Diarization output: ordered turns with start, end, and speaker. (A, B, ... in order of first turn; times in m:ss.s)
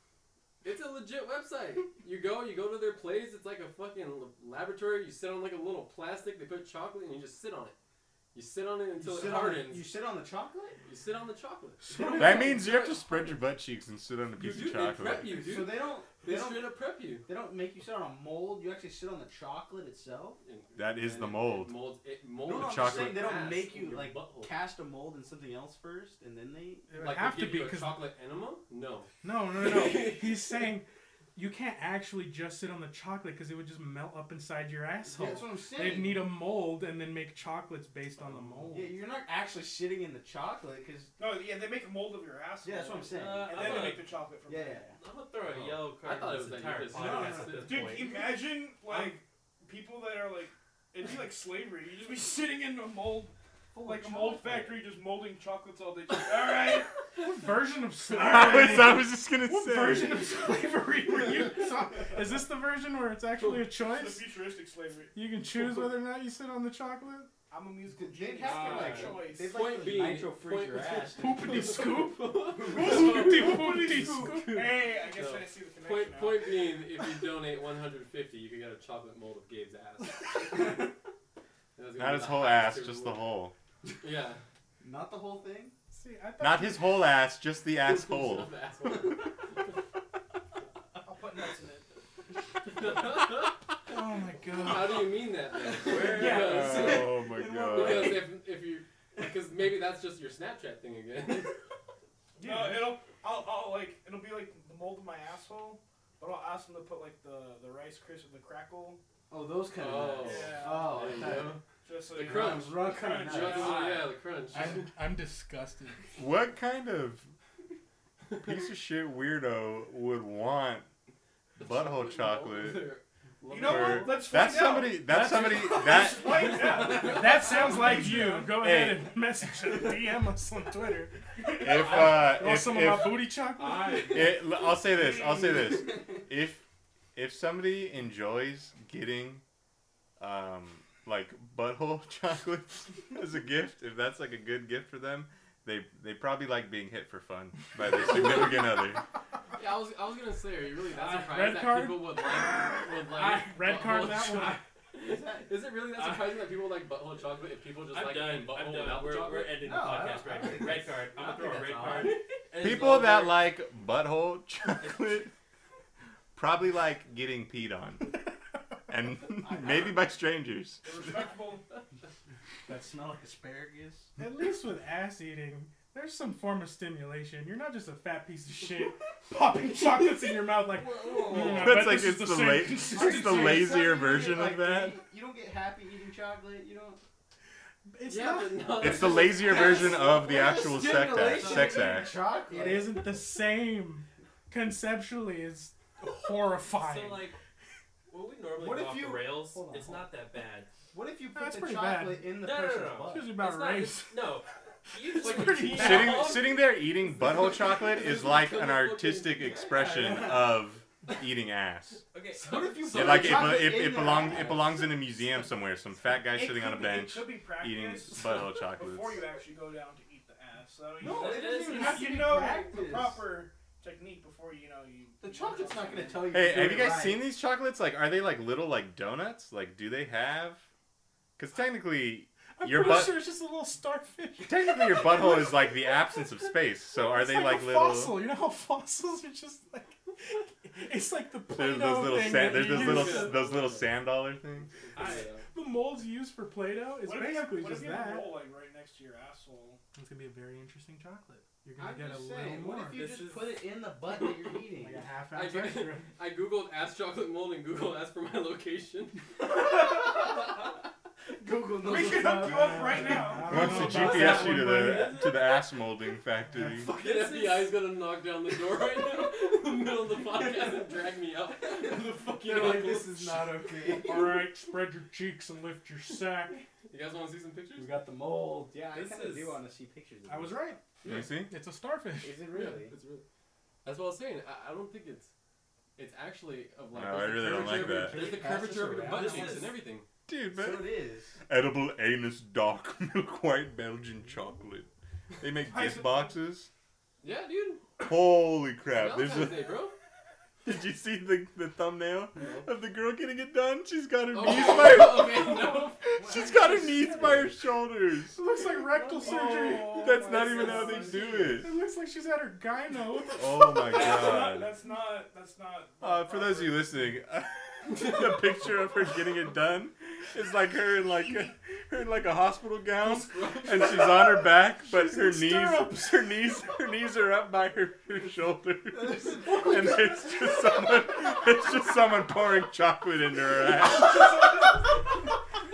0:00.6-0:07.7 A
0:08.3-0:09.8 A
0:09.0-0:10.8 B
0:10.8-0:13.2 A
0:12.1-0:15.4 C
0:12.2-0:12.5 D
0:12.2-0:12.5 E
0:14.4-0:17.3 A
0:15.3-0:20.4 B
0:20.4-0:24.6 A
0:20.7-0:21.8 C
0:22.4-0:26.9 B
0:22.5-0:23.4 C
0:26.9-0:28.0 E
0:27.0-0:30.6 A
0:29.2-0:39.0 E
0:35.1-0:36.3 B
0:38.2-0:38.7 A
0:38.7-0:41.1 B
0:41.2-0:44.9 D
0:42.6-0:45.0 B
0:43.1-0:44.1 F
0:45.0-0:48.2 F
0:45.4-0:48.0 A
0:46.9-0:47.9 B
0:47.5-0:56.9 D
0:53.7-0:54.8 B
0:57.2-1:04.3 E
0:58.1-1:00.2 C
0:58.3-0:59.1 D
1:03.4-1:05.2 D
1:05.1-1:07.3 E
1:07.5-1:09.6 D
1:07.8-1:11.8 B
1:08.5-1:20.6 A
1:08.5-1:09.1 F
1:11.2-1:14.8 E
1:12.5-1:13.2 B
1:12.7-1:16.5 D
1:21.7-1:23.3 A
1:22.0-1:23.5 C
1:24.0-1:24.4 A
1:24.8-1:25.7 B
1:25.9-1:27.1 E
1:26.4-1:28.5 C
1:27.8-1:29.7 A
1:31.0-1:31.9 D
1:32.6-1:33.6 A
1:33.9-1:35.2 E
1:34.5-1:41.5 A
1:35.8-1:38.3 B
1:36.2-1:38.2 C
1:42.4-1:49.0 D
1:42.4-1:42.9 E
1:49.3-1:51.6 B
1:49.7-1:54.9 A
1:50.2-1:53.8 D
1:52.2-1:54.0 B
1:53.4-1:54.1 F
1:54.5-1:56.0 E
1:56.2-1:57.3 C
1:58.4-2:00.9 C
2:01.6-2:02.9 C
2:01.6-2:04.3 A
2:03.5-2:08.6 D
2:03.6-2:06.8 C
2:05.1-2:05.8 E
2:06.8-2:07.4 A
2:06.8-2:14.2 E
2:08.0-2:09.2 C
2:11.5-2:13.4 C
2:11.8-2:12.3 F
2:13.6-2:14.4 F
2:14.0-2:16.6 C
2:17.1-2:19.4 C
2:20.2-2:29.0 C
2:29.5-2:39.6 A
2:30.9-2:31.3 F
2:31.2-2:32.1 E
2:33.2-2:34.6 E
2:35.0-2:35.5 B
2:35.9-2:36.5 F
2:37.9-2:43.5 F
2:39.6-2:42.2 B
2:42.5-2:45.3 C
2:46.3-2:48.2 C
2:48.9-2:50.8 C
2:49.4-2:49.9 B
2:50.8-2:51.6 D
2:52.7-2:54.1 B
2:54.2-3:03.9 E
3:00.0-3:01.9 B
3:01.4-3:05.0 C
3:02.9-3:07.0 B
3:07.9-3:08.8 E
3:08.0-3:10.2 A
3:08.8-3:12.2 C
3:09.4-3:13.0 B
3:11.1-3:11.8 F
3:12.5-3:17.3 E
3:16.7-3:17.4 F
3:18.1-3:20.7 F
3:18.6-3:20.1 B
3:20.9-3:23.4 B
3:21.3-3:22.4 E
3:22.4-3:27.5 F
3:23.0-3:24.3 E
3:24.9-3:26.4 E
3:25.2-3:26.0 A
3:25.6-3:32.0 C
3:27.4-3:29.8 A
3:29.7-3:30.6 B
3:32.1-3:33.5 F
3:32.4-3:34.9 B
3:32.4-3:33.2 A
3:32.9-3:39.3 C
3:36.2-3:46.3 D
3:41.0-3:43.2 B
3:41.0-3:42.3 F
3:41.7-3:42.7 E
3:45.2-3:47.3 B
3:46.3-3:50.6 C
3:51.4-3:53.3 C
3:52.6-3:55.7 E
3:54.4-3:58.2 C
3:57.0-4:03.4 E
4:01.5-4:04.8 C
4:02.4-4:05.5 A
4:05.0-4:05.3 F
4:05.0-4:08.4 E
4:07.0-4:09.8 D
4:09.9-4:13.1 E
4:11.8-4:15.0 B
4:12.9-4:13.5 F
4:14.8-4:16.1 E
4:15.3-4:19.3 A
4:19.5-4:20.6 B
4:21.4-4:24.5 B
4:21.8-4:24.0 D
4:22.2-4:25.2 E
4:23.5-4:26.9 C
4:23.9-4:25.3 F
4:26.5-4:27.7 B
4:26.9-4:33.5 A
4:27.0-4:27.6 F
4:32.3-4:34.5 B
4:33.8-4:36.6 E
4:36.9-4:37.9 A
4:37.8-4:41.3 B
4:38.9-4:39.6 F
4:40.3-4:40.8 E
4:41.0-4:41.5 C
4:41.4-4:42.4 E
4:42.2-4:43.0 B
4:42.5-4:43.2 A
4:43.8-4:45.3 A
4:46.0-4:50.0 A
4:46.9-4:48.3 C
4:47.6-4:49.7 B
4:48.1-4:49.7 F
4:50.3-4:54.9 C
4:50.5-4:51.4 B
4:55.4-4:56.7 C
4:55.6-4:56.4 D
4:57.2-4:58.0 A
4:58.0-4:59.8 C
4:58.9-4:59.9 A
5:00.6-5:08.4 C
5:02.4-5:02.6 A
5:04.3-5:06.1 A
5:06.2-5:07.6 B
5:08.3-5:10.2 E
5:09.2-5:11.6 D
5:09.8-5:11.7 C
5:11.6-5:13.8 E
5:13.3-5:14.7 C
5:13.8-5:17.0 D
5:16.0-5:34.6 C
5:23.0-5:23.9 A
5:24.8-5:26.3 E
5:28.9-5:30.9 B
5:34.1-5:34.6 D